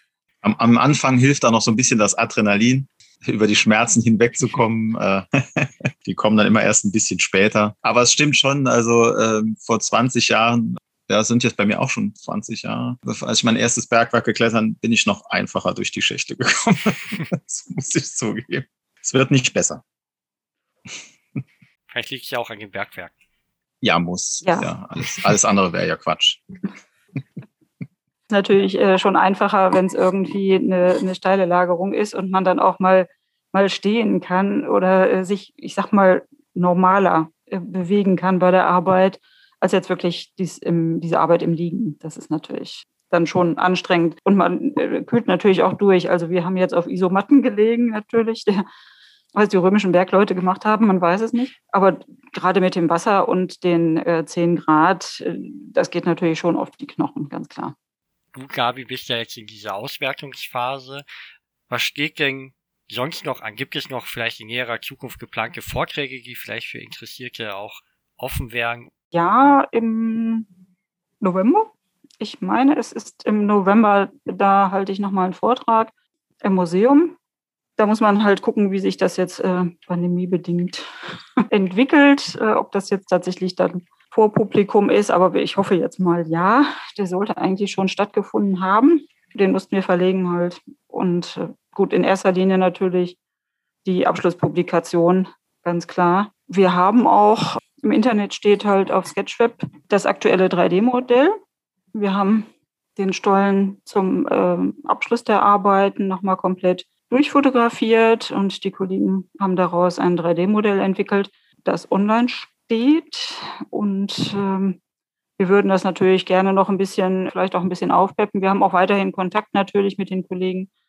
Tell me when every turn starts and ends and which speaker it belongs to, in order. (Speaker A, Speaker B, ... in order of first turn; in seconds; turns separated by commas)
Speaker A: 0.4-19.8, Speaker B: 21.9-23.1, Speaker A: 23.8-26.4, Speaker C: 24.4-24.7, Speaker C: 28.3-48.6, Speaker C: 49.3-57.7, Speaker B: 58.3-61.0, Speaker B: 61.7-68.9, Speaker C: 69.1-70.5, Speaker C: 71.2-77.1, Speaker C: 77.8-80.9, Speaker C: 81.5-93.2, Speaker C: 93.8-101.3, Speaker C: 101.9-114.8, Speaker C: 115.4-120.7